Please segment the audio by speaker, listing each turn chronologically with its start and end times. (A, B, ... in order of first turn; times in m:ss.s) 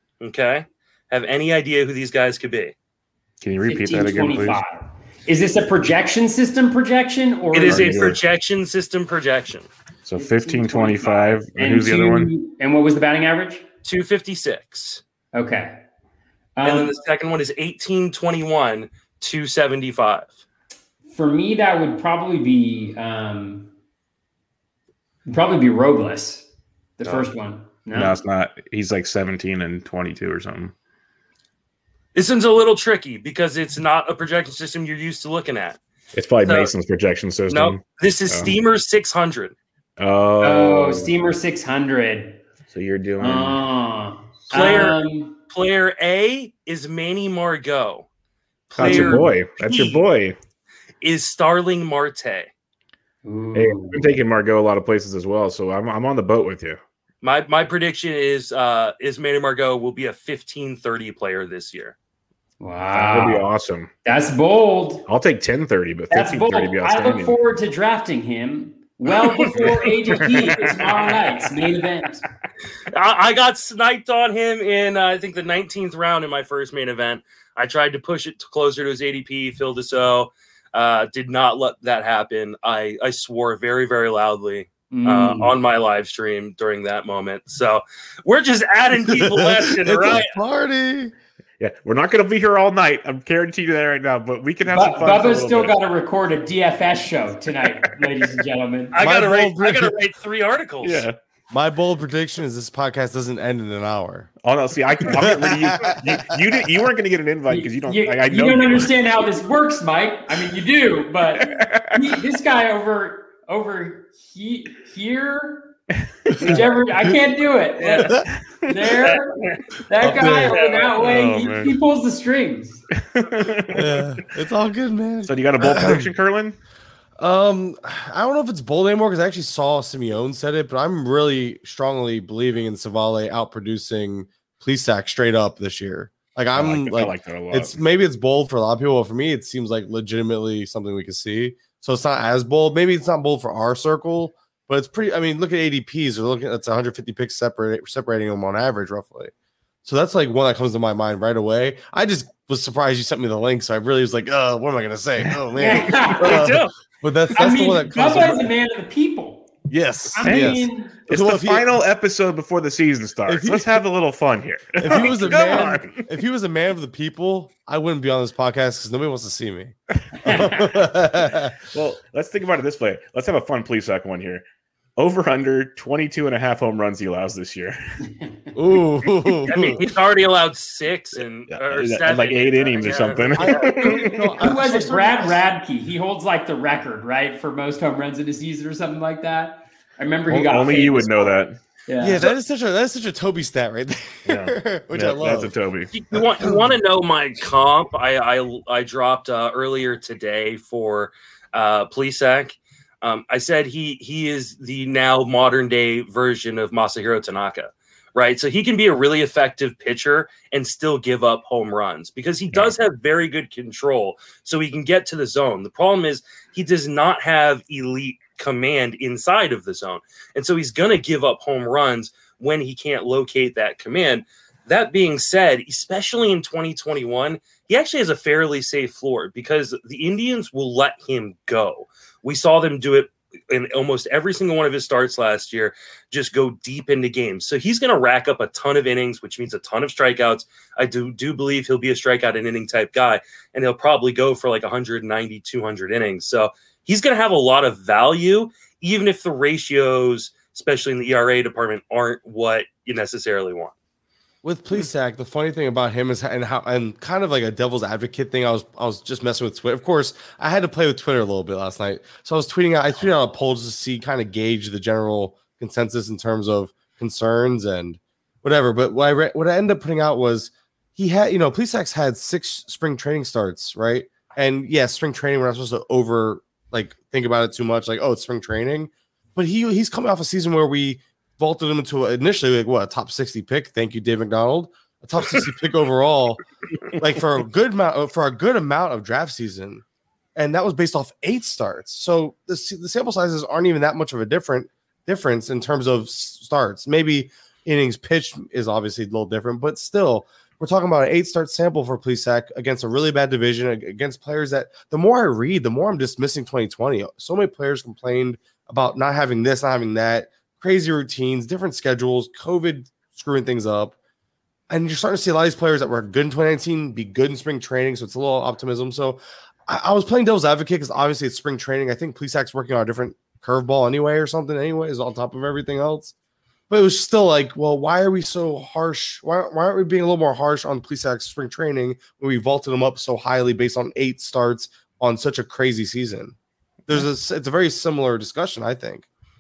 0:00.2-0:02.8 A
0:03.4-0:04.6 B
0:03.6-0:08.1 C
0:07.5-0:09.7 A
0:07.7-0:08.2 B
0:10.0-0:12.3 B
0:10.2-0:13.6 C
0:13.8-0:15.0 A
0:15.3-0:15.8 C
0:16.6-0:16.9 C
0:16.6-0:20.4 A
0:21.1-0:23.7 C
0:25.3-0:26.5 C
0:27.0-0:28.2 C
0:27.9-0:30.7 B
0:32.1-0:35.8 A
0:36.1-0:38.6 B
0:36.4-0:36.7 A
0:37.5-0:39.6 A
0:40.0-0:41.1 B
0:40.4-0:42.4 C
0:42.7-0:43.6 B
0:43.2-0:45.4 C
0:44.5-0:48.1 A
0:44.6-0:44.8 B
0:48.8-0:50.0 A
0:48.8-0:50.4 B
0:48.8-0:49.2 C
0:51.0-0:52.5 A
0:53.2-0:54.2 C
0:53.6-0:56.8 B
0:57.2-1:02.0 A
1:02.6-1:03.5 C
1:02.9-1:03.9 B
1:04.0-1:05.1 C
1:05.1-1:07.4 B
1:06.1-1:12.2 C
1:09.3-1:09.7 A
1:09.7-1:10.9 B
1:12.9-1:30.3 A
1:24.9-1:25.5 C
1:29.1-1:31.1 D
1:31.6-1:35.8 B
1:34.7-1:39.0 C
1:38.9-1:41.0 A
1:39.0-1:40.0 D
1:40.8-1:41.2 B
1:41.5-1:44.3 D
1:44.4-1:49.0 B
1:45.0-1:46.4 D
1:47.5-1:55.8 C
1:51.4-1:52.0 B
1:56.3-1:56.6 B
1:56.3-2:02.8 C
1:57.8-1:58.1 A
1:58.4-1:59.1 B
2:00.0-2:00.6 D
2:00.6-2:00.9 A
2:00.9-2:01.8 B
2:03.0-2:04.2 B
2:03.7-2:06.1 D
2:05.3-2:06.6 B
2:07.2-2:29.3 D
2:16.5-2:17.8 B
2:29.8-2:38.5 D
2:35.5-2:36.6 C
2:35.8-2:36.7 A
2:37.3-2:39.5 C
2:39.7-2:41.6 D
2:40.1-2:41.0 C
2:40.2-2:46.1 B
2:43.3-2:43.7 D
2:44.8-2:51.6 D
2:50.2-2:50.7 C
2:51.7-2:54.4 B
2:55.0-2:57.8 B
2:58.5-2:59.8 D
2:59.5-3:04.1 A
3:01.2-3:04.4 B
3:03.3-3:05.4 D
3:04.4-3:12.3 C
3:10.3-3:11.6 B
3:12.0-3:15.6 D
3:14.3-3:15.9 B
3:15.9-4:13.7 A
3:16.4-3:16.7 D
3:32.5-3:32.8 B
4:14.4-4:46.4 D
4:46.9-4:49.8 D
4:50.4-5:14.0 D
5:14.7-5:26.1 D
5:26.7-5:36.4 D
5:36.9-5:39.1 D